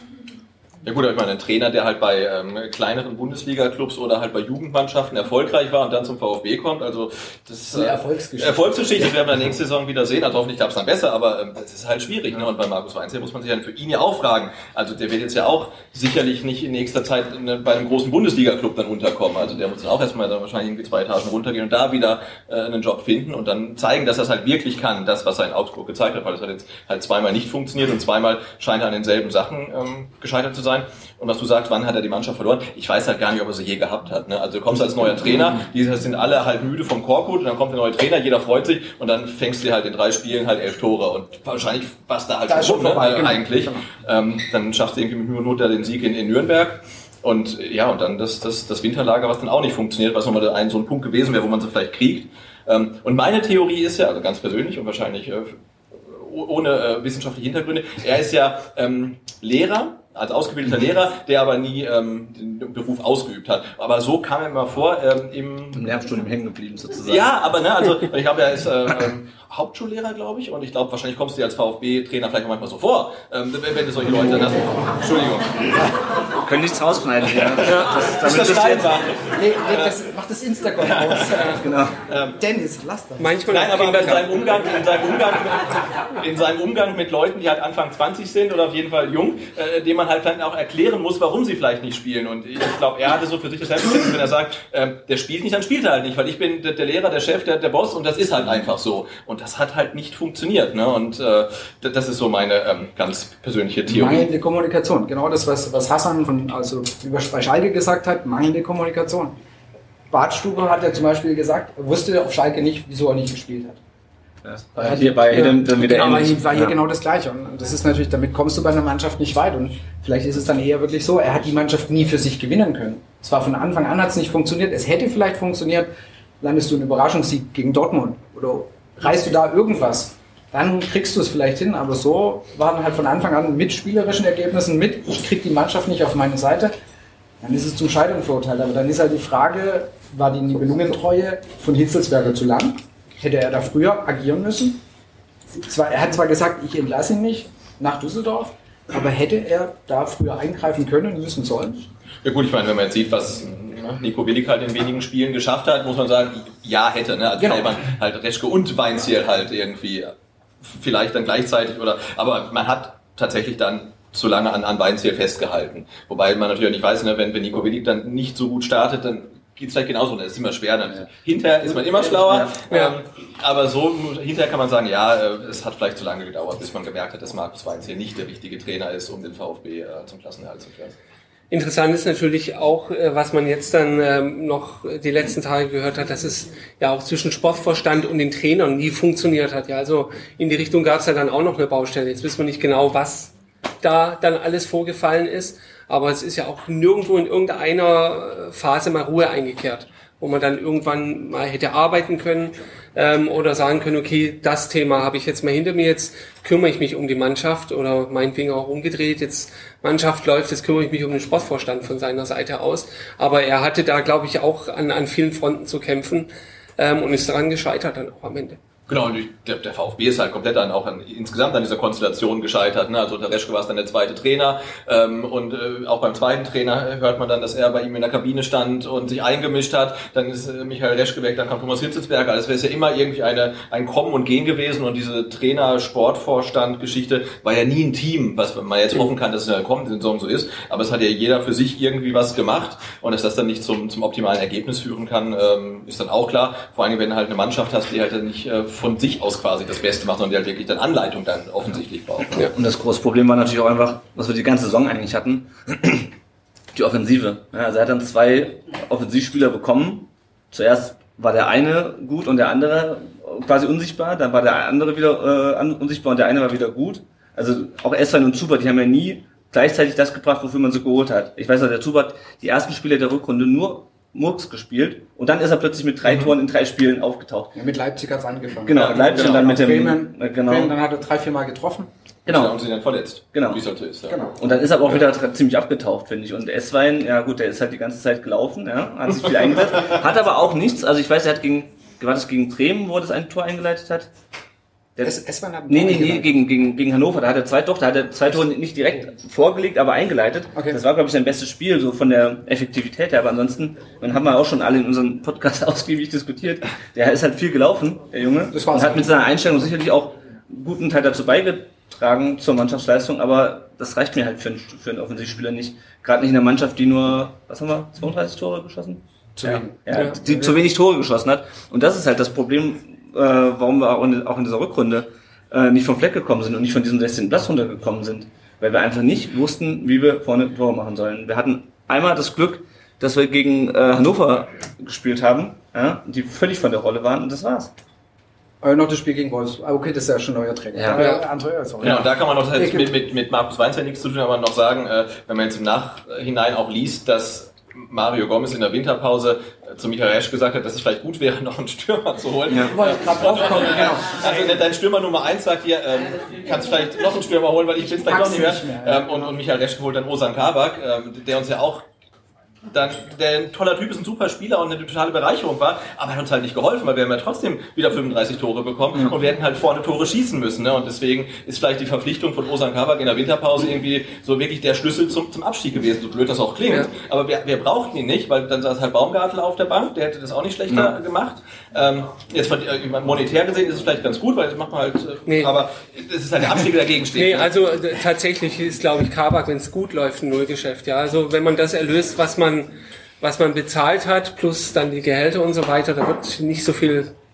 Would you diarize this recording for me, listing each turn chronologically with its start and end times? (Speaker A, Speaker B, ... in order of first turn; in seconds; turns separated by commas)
Speaker A: 0.8-65.9, Speaker B: 7.7-9.2, Speaker B: 42.5-43.9, Speaker C: 65.7-67.3, Speaker A: 67.0-75.7, Speaker C: 76.3-79.0, Speaker A: 77.4-80.0, Speaker D: 77.7-78.0, Speaker B: 79.3-81.7, Speaker A: 80.8-82.4, Speaker C: 81.5-81.9, Speaker B: 82.3-83.4, Speaker D: 83.2-84.4, Speaker A: 83.5-104.3, Speaker B: 103.8-109.4, Speaker B: 110.1-113.8, Speaker C: 114.4-116.8, Speaker B: 114.8-136.7, Speaker B: 137.4-144.8, Speaker B: 145.6-151.8, Speaker A: 152.2-181.0, Speaker B: 157.4-157.7, Speaker C: 172.0-172.6, Speaker D: 172.7-172.9, Speaker D: 181.5-218.6, Speaker A: 218.9-252.4, Speaker C: 252.3-256.1, Speaker C: 256.7-277.6, Speaker B: 277.5-281.9, Speaker C: 278.6-280.8, Speaker A: 278.7-279.6, Speaker C: 282.2-282.6, Speaker A: 282.3-284.2, Speaker C: 283.3-283.6, Speaker B: 284.1-284.3, Speaker C: 284.3-294.1, Speaker C: 294.9-337.7, Speaker B: 295.0-296.3, Speaker B: 308.5-309.1, Speaker B: 319.4-320.6, Speaker B: 338.6-342.9, Speaker C: 340.7-341.1, Speaker D: 340.9-341.2, Speaker A: 341.8-361.9, Speaker C: 352.5-352.8, Speaker B: 352.6-354.6, Speaker B: 357.8-359.3, Speaker A: 362.7-387.5, Speaker D: 385.3-385.5, Speaker D: 387.1-397.1